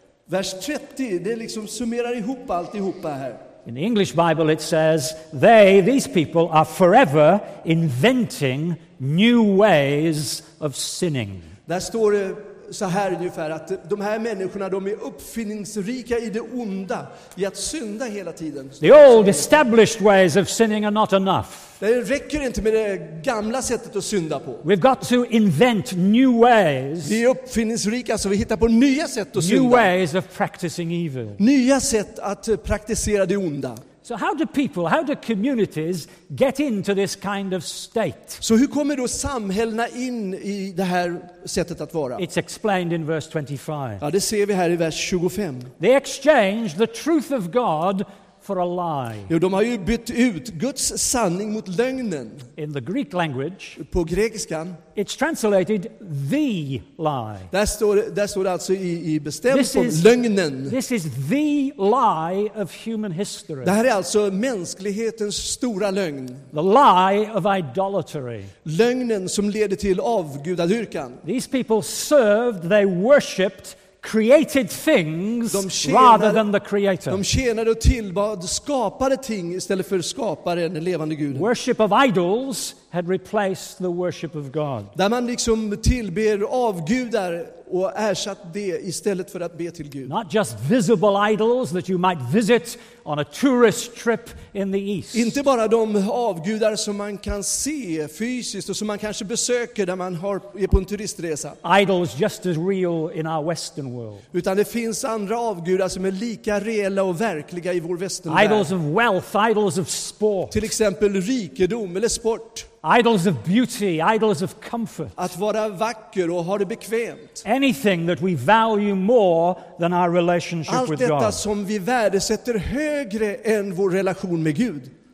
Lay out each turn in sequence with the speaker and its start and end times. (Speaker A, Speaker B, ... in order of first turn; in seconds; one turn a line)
Speaker A: 0.3-3.4
Speaker B: 3.6-11.5
Speaker A: 11.7-19.6
Speaker B: 18.8-21.7
Speaker A: 21.8-24.6
Speaker B: 24.6-27.2
Speaker A: 27.0-29.9
Speaker B: 29.4-31.4
Speaker A: 31.4-33.8
Speaker B: 34.0-38.4
Speaker A: 38.4-42.2
Speaker B: 42.1-44.0
Speaker A: 44.0-45.7
Speaker B: 45.8-49.3
Speaker A: 49.3-52.5
Speaker B: 52.5-53.8
Speaker A: 53.8-54.8
Speaker B: 54.9-57.5
Speaker A: 57.5-60.8
Speaker B: 59.5-60.1
Speaker B: 60.7-63.7
Speaker A: 63.6-66.5
Speaker B: 66.5-68.5
Speaker A: 68.6-71.2
Speaker B: 71.2-77.2
Speaker A: 75.5-76.5
Speaker A: 77.1-81.5
Speaker B: 81.3-84.9
Speaker A: 84.9-90.1
Speaker B: 90.1-95.4
Speaker A: 95.1-101.6
Speaker B: 101.6-104.2
Speaker A: 104.3-108.7
Speaker B: 108.3-110.6
Speaker A: 110.5-112.7
Speaker B: 112.8-115.2
Speaker A: 115.2-117.4
Speaker B: 117.4-121.4
Speaker A: 120.7-124.9